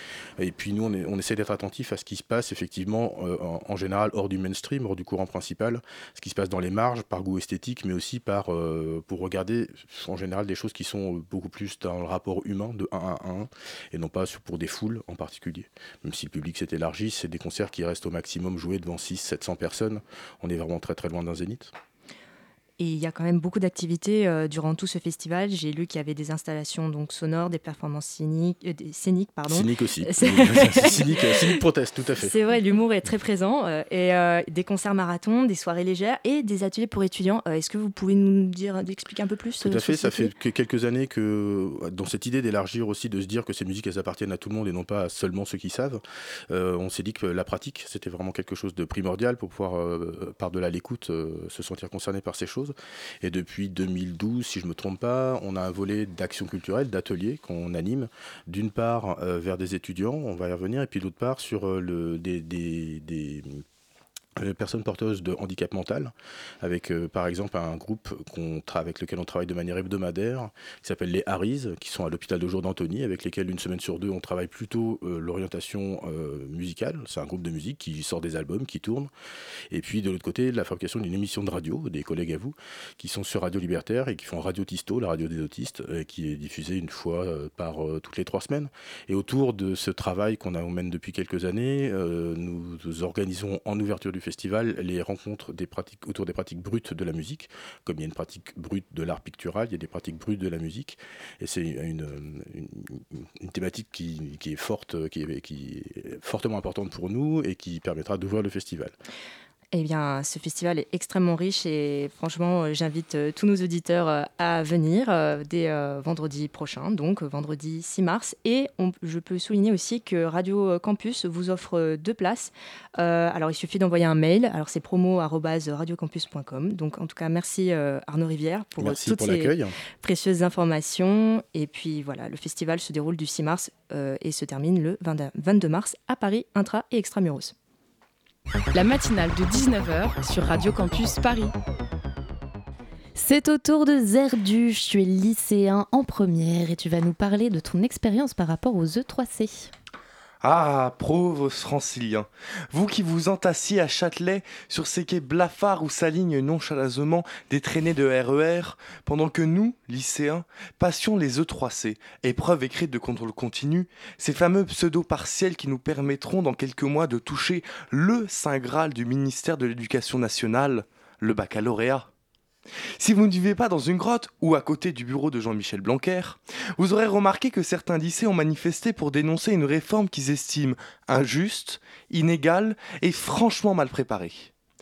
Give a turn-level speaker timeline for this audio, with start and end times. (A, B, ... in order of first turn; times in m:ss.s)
0:00.4-0:21.7 A
0:22.8-0:31.7 B
0:29.5-0:32.3 A
0:32.2-0:40.3 B
0:39.6-1:03.6 A
1:04.4-1:19.1 A
1:19.7-1:49.0 A
1:49.7-2:17.6 B
2:08.8-2:09.8 A
2:18.7-2:21.5 C
2:23.2-2:29.7 D
2:30.4-2:52.1 E
2:53.0-3:04.5 E